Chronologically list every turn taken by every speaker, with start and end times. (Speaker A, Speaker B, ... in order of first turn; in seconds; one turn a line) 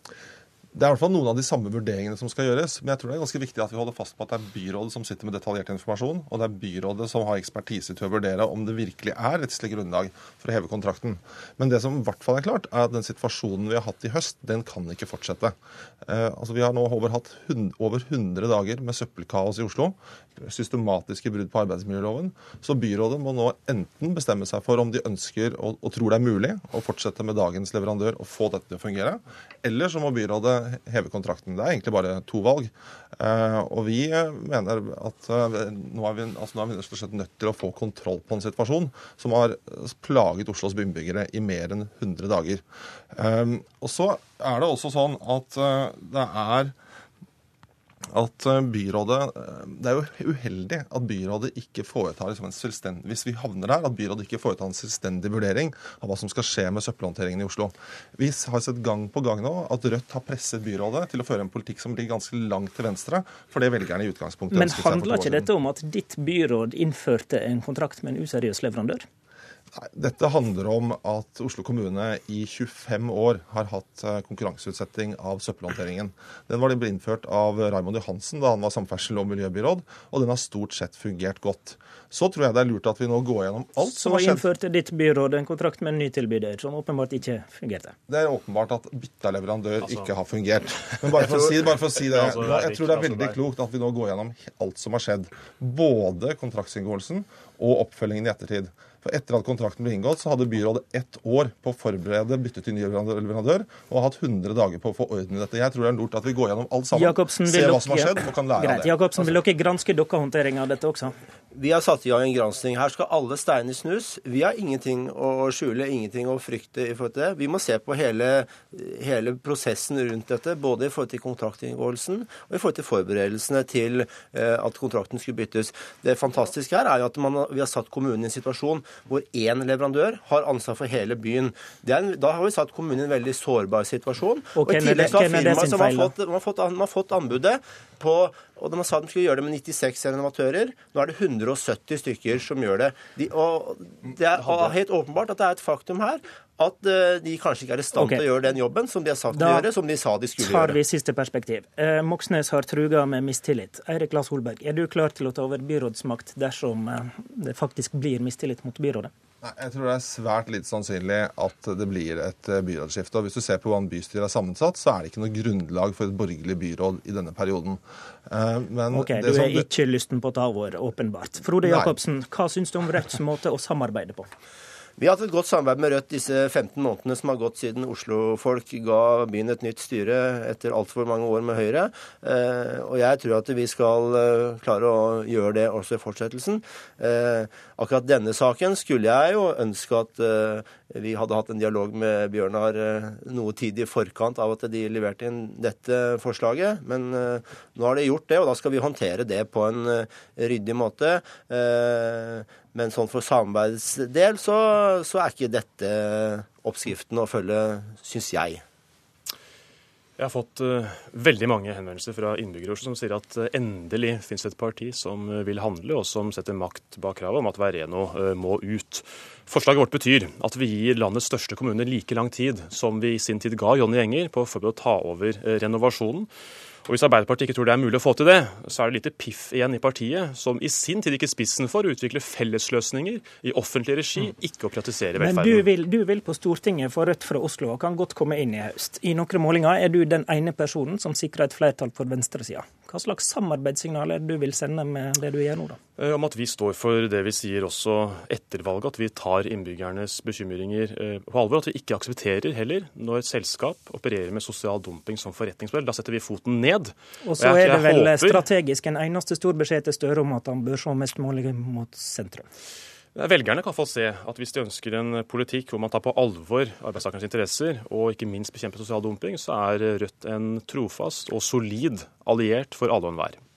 Speaker A: 0.7-46.7
Speaker A: 48.1-65.5
Speaker B: 64.5-69.0
Speaker A: 69.8-84.5
Speaker B: 83.8-88.0
Speaker A: 88.1-108.9
Speaker C: 89.8-90.1
Speaker C: 90.8-93.4
Speaker B: 106.9-111.2
Speaker D: 111.5-150.8
Speaker B: 134.6-136.1
Speaker C: 144.4-144.7
Speaker B: 147.9-148.2
Speaker B: 149.3-149.7
Speaker B: 150.4-159.1
Speaker A: 159.4-169.7
Speaker B: 168.9-174.3
Speaker A: 171.6-171.9
Speaker D: 175.0-208.6
Speaker C: 210.2-226.3
Speaker C: 226.9-235.7
Speaker B: 235.2-245.8
Speaker C: 246.0-258.5
Speaker B: 257.2-262.5
Speaker C: 263.1-273.4